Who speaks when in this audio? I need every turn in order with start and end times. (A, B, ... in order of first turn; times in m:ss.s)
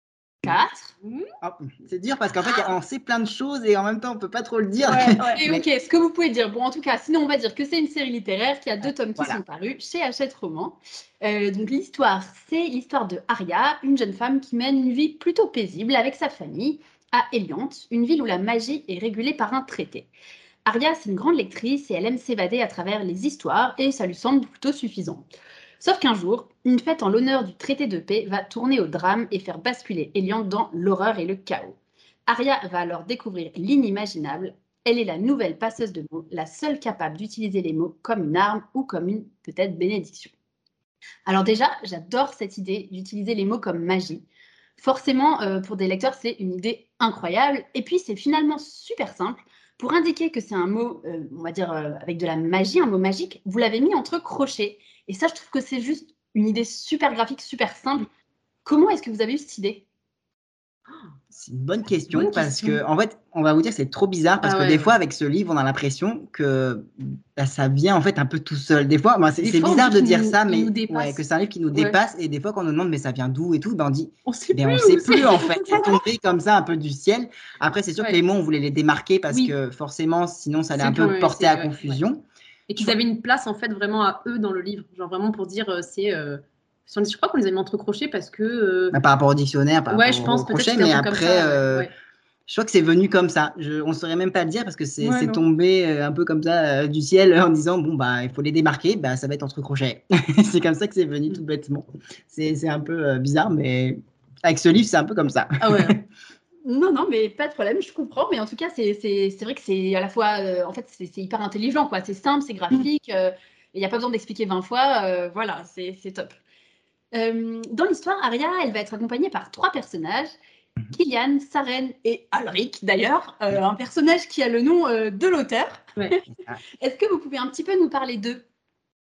0:00.4-0:00.9 A
0:01.0-0:01.3 B
0:01.4-0:05.6 C
0:04.8-0:20.1 A
0:20.6-0:25.3 A
0:25.8-0:40.3 A
0:41.2-0:44.2 A
0:44.8-0:58.0 A
0:58.6-0:59.8 A
1:01.3-1:22.2 C
1:02.1-1:02.8 B
1:04.4-1:04.9 B
1:09.4-1:11.2 B
1:14.3-1:16.0 B
1:19.3-1:19.5 B
1:20.8-1:22.0 B
1:22.7-1:29.0 B
1:28.9-1:31.9 C
1:29.9-1:31.9 B
1:32.5-1:46.0 C
1:35.0-1:35.4 B
1:45.6-1:46.0 B
1:46.6-1:56.4 A
1:57.1-2:00.3 A
2:00.9-2:06.1 A
2:06.3-2:06.6 C
2:06.8-2:08.4 A